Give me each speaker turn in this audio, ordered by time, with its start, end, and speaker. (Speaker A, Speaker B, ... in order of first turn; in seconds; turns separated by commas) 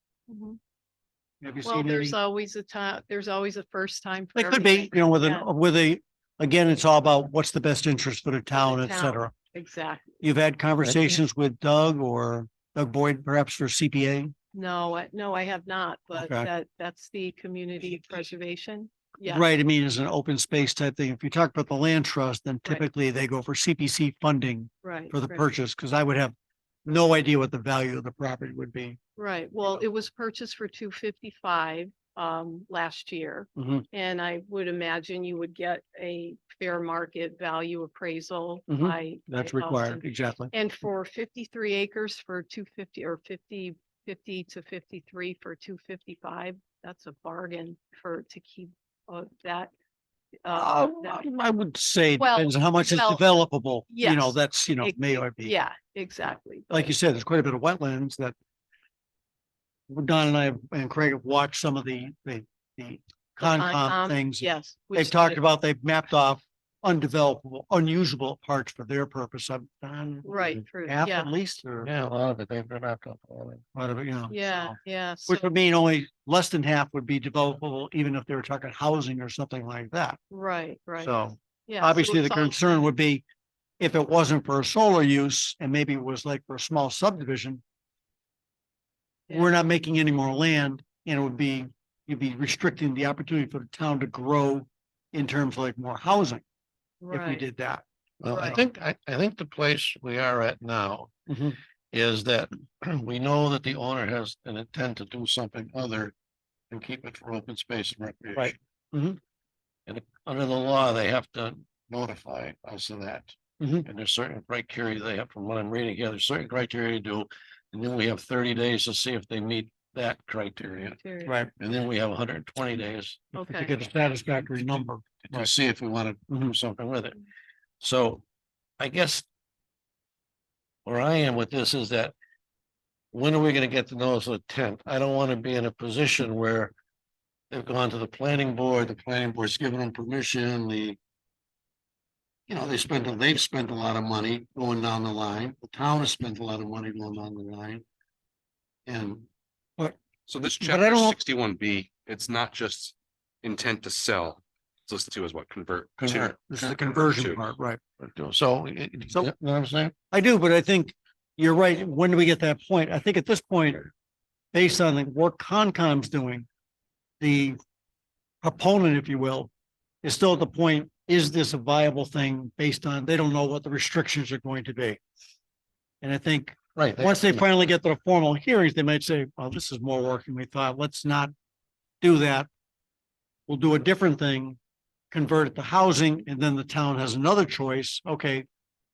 Speaker A: 0.3-0.6, Speaker B: 1.4-2.1, Speaker A: 1.6-5.5, Speaker B: 4.3-9.3, Speaker A: 8.5-10.2, Speaker B: 10.2-14.3, Speaker A: 14.5-19.5, Speaker B: 16.1-16.5, Speaker B: 19.2-26.3, Speaker A: 24.8-25.4, Speaker B: 26.9-29.0, Speaker A: 29.2-49.7, Speaker B: 33.6-33.9, Speaker B: 38.7-40.5, Speaker A: 50.5-51.2, Speaker B: 50.5-55.5, Speaker A: 52.2-53.3, Speaker A: 53.9-56.9, Speaker B: 56.7-58.3, Speaker B: 59.9-71.9, Speaker A: 63.4-65.4, Speaker A: 70.2-71.3, Speaker C: 71.8-73.6, Speaker B: 73.8-74.7, Speaker A: 74.3-75.5, Speaker B: 75.3-80.2, Speaker A: 80.3-81.1, Speaker B: 81.0-83.2, Speaker A: 81.7-82.8, Speaker B: 83.8-87.6, Speaker B: 89.3-96.4, Speaker A: 97.0-97.4, Speaker B: 97.1-98.6, Speaker C: 98.2-101.1, Speaker B: 101.3-101.6, Speaker C: 101.9-106.1, Speaker C: 106.7-108.6, Speaker B: 108.4-109.2, Speaker C: 109.9-121.0, Speaker B: 113.6-113.9, Speaker A: 121.0-121.3, Speaker B: 121.3-121.5, Speaker C: 121.5-123.3, Speaker A: 123.3-123.7, Speaker B: 123.4-125.5, Speaker C: 125.2-127.2, Speaker B: 126.3-126.5, Speaker C: 127.8-128.2, Speaker C: 128.8-129.2, Speaker C: 130.8-132.1, Speaker C: 133.1-136.7, Speaker C: 137.5-141.0, Speaker C: 142.5-147.8, Speaker C: 148.8-149.3, Speaker B: 149.8-151.2, Speaker D: 150.3-157.4, Speaker C: 156.0-156.7, Speaker B: 156.5-157.8, Speaker C: 158.0-159.9, Speaker B: 160.1-163.9, Speaker B: 164.5-166.5, Speaker B: 167.2-167.6, Speaker B: 168.4-169.5, Speaker B: 170.0-175.0, Speaker B: 176.0-181.3, Speaker C: 176.8-177.4, Speaker B: 182.0-182.5, Speaker B: 183.5-184.6, Speaker B: 185.1-188.4